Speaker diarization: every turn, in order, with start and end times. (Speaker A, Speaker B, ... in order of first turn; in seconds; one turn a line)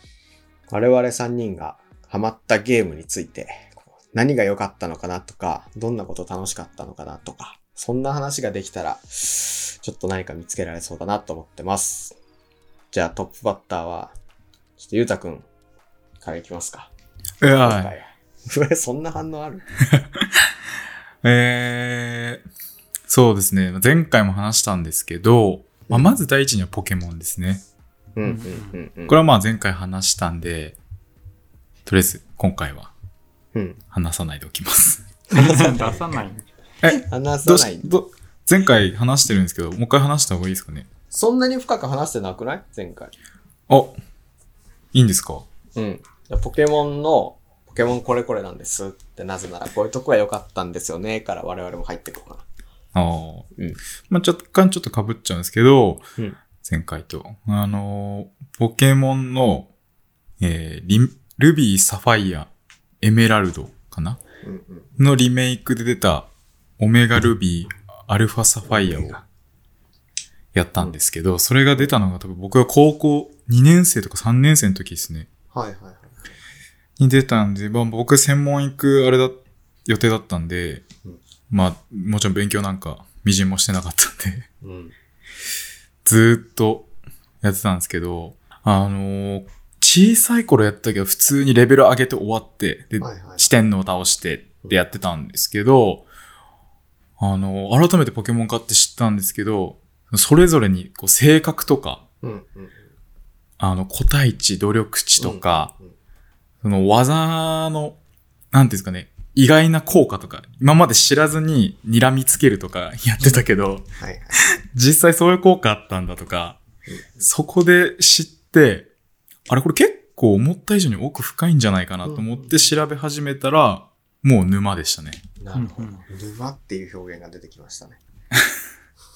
Speaker A: 0.7-12.2
Speaker A: 12.9-14.1
Speaker A: 14.8-15.4
Speaker A: 16.2-16.9
Speaker B: 17.4-17.9
Speaker A: 17.4-19.6
Speaker B: 19.9-20.5
Speaker B: 21.2-22.4
Speaker B: 23.1-27.6
Speaker A: 25.9-26.1
Speaker A: 28.1-29.2
Speaker C: 28.2-28.8
Speaker B: 29.1-30.8
Speaker B: 31.9-32.9
Speaker A: 33.5-33.8
Speaker B: 33.9-35.1
Speaker A: 35.3-36.2
Speaker C: 35.3-36.5
Speaker B: 36.8-40.9
Speaker A: 36.8-37.9
Speaker A: 41.1-43.1
Speaker B: 43.7-44.0
Speaker B: 44.9-45.5
Speaker A: 45.7-52.5
Speaker B: 52.9-53.5
Speaker B: 54.0-56.1
Speaker B: 56.6-59.7
Speaker B: 60.4-62.5
Speaker B: 63.0-64.2
Speaker A: 64.4-64.9
Speaker B: 65.0-69.2
Speaker A: 68.7-69.2
Speaker B: 70.5-75.3
Speaker A: 75.5-76.3
Speaker B: 77.0-80.8
Speaker B: 81.5-84.5
Speaker A: 84.6-84.9
Speaker B: 86.0-86.9
Speaker B: 87.4-96.1
Speaker A: 93.0-93.5
Speaker B: 97.2-102.0
Speaker A: 102.2-102.9
Speaker B: 103.6-105.7
Speaker A: 105.2-105.9
Speaker B: 106.6-108.0
Speaker B: 108.5-116.6
Speaker A: 114.0-114.4
Speaker A: 116.9-117.2
Speaker B: 117.2-118.9
Speaker B: 119.5-125.2
Speaker A: 122.0-122.7
Speaker A: 125.4-128.0
Speaker C: 125.5-126.0